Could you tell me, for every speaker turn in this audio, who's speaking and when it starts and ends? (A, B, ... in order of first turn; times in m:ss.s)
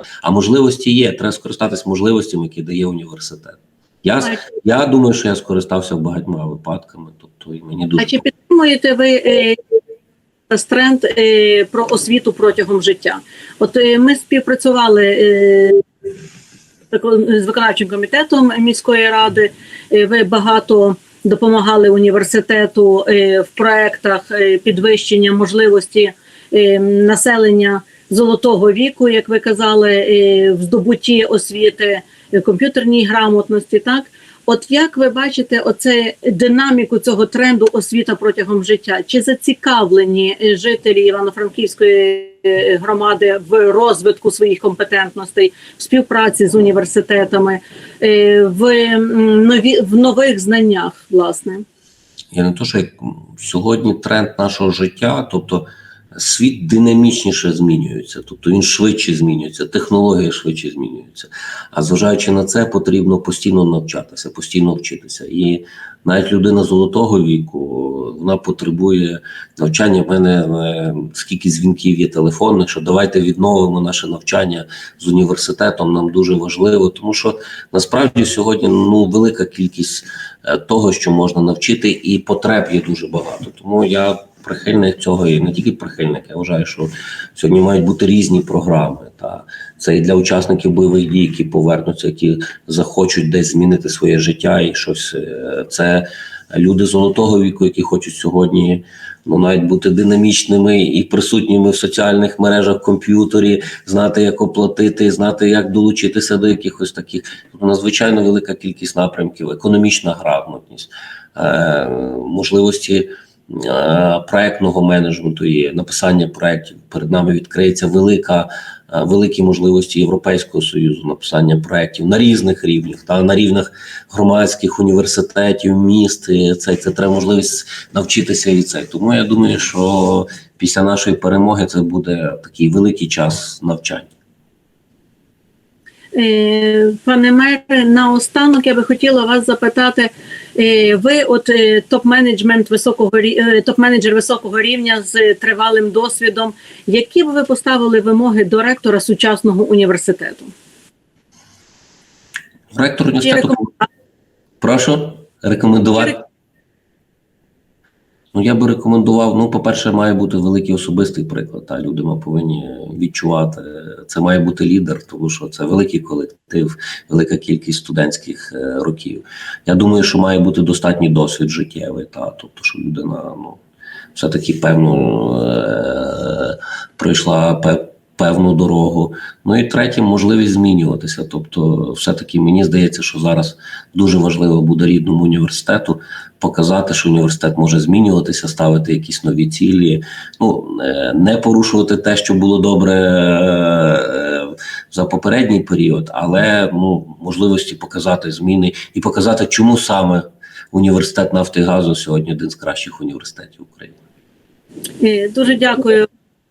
0:00.2-0:08.2 A
0:08.0-0:09.6 B
0:10.5-0:15.8 B
0:16.9-0:51.6 B
0:52.3-2:14.1 A
2:16.1-2:30.5 B
2:32.7-2:33.7 A
2:33.2-2:33.6 B
2:34.6-2:36.2 A
2:38.3-2:53.6 A
2:54.1-3:24.0 A
3:25.0-3:26.1 B